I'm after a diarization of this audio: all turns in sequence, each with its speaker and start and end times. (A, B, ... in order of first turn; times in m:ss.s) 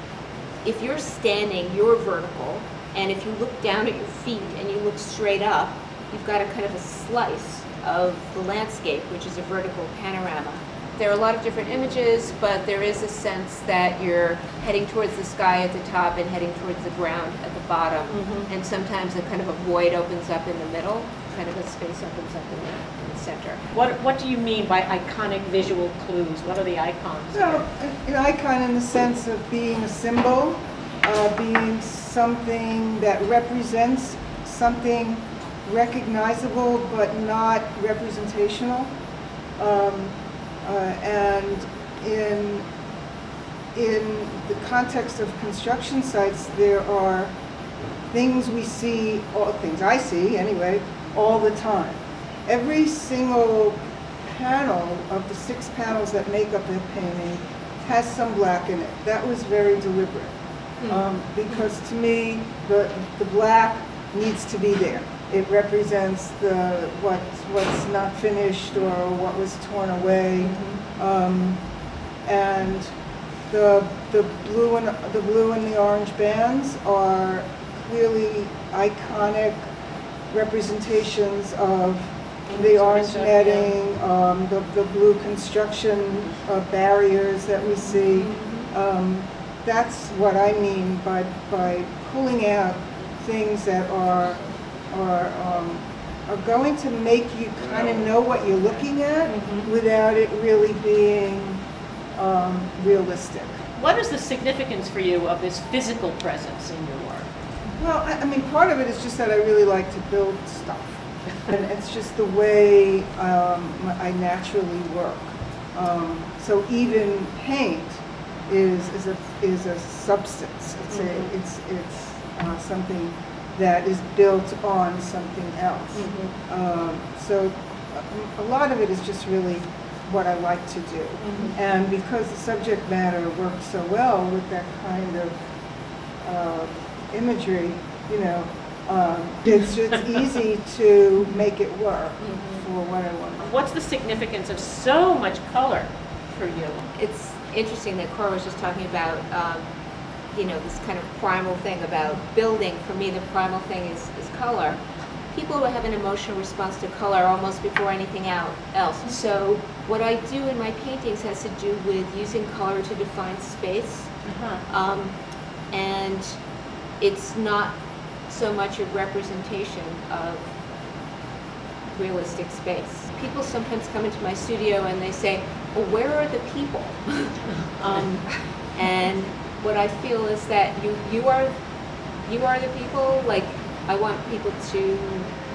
0:00.6-0:23.6 A
0:18.1-0:18.5 B
0:23.7-0:27.6 B
0:27.3-0:38.9 C
0:39.6-0:42.6 C
0:43.7-0:47.3 C
0:48.1-1:00.3 C
1:00.8-1:01.1 B
1:00.9-1:11.6 C
1:10.5-1:10.8 B
1:12.2-1:12.9 C
1:13.5-1:19.6 C
1:20.3-1:34.4 C
1:22.5-1:23.7 B
1:28.3-1:28.6 B
1:34.9-1:41.6 C
1:39.3-1:39.7 B
1:42.2-1:43.6 C
1:43.8-1:47.2 B
1:47.8-2:15.4 C
2:00.9-2:01.3 B
2:06.0-2:06.3 B
2:11.2-2:11.6 B
2:16.2-2:23.5 C
2:23.4-2:26.8 B
2:27.0-2:29.7 A
2:30.3-2:34.8 A
2:35.3-2:44.1 A
2:44.3-2:44.6 B
2:44.7-2:45.2 A
2:45.7-2:46.4 A
2:47.0-2:47.8 A
2:48.3-2:50.5 A
2:51.9-3:01.5 A
3:02.3-3:05.3 A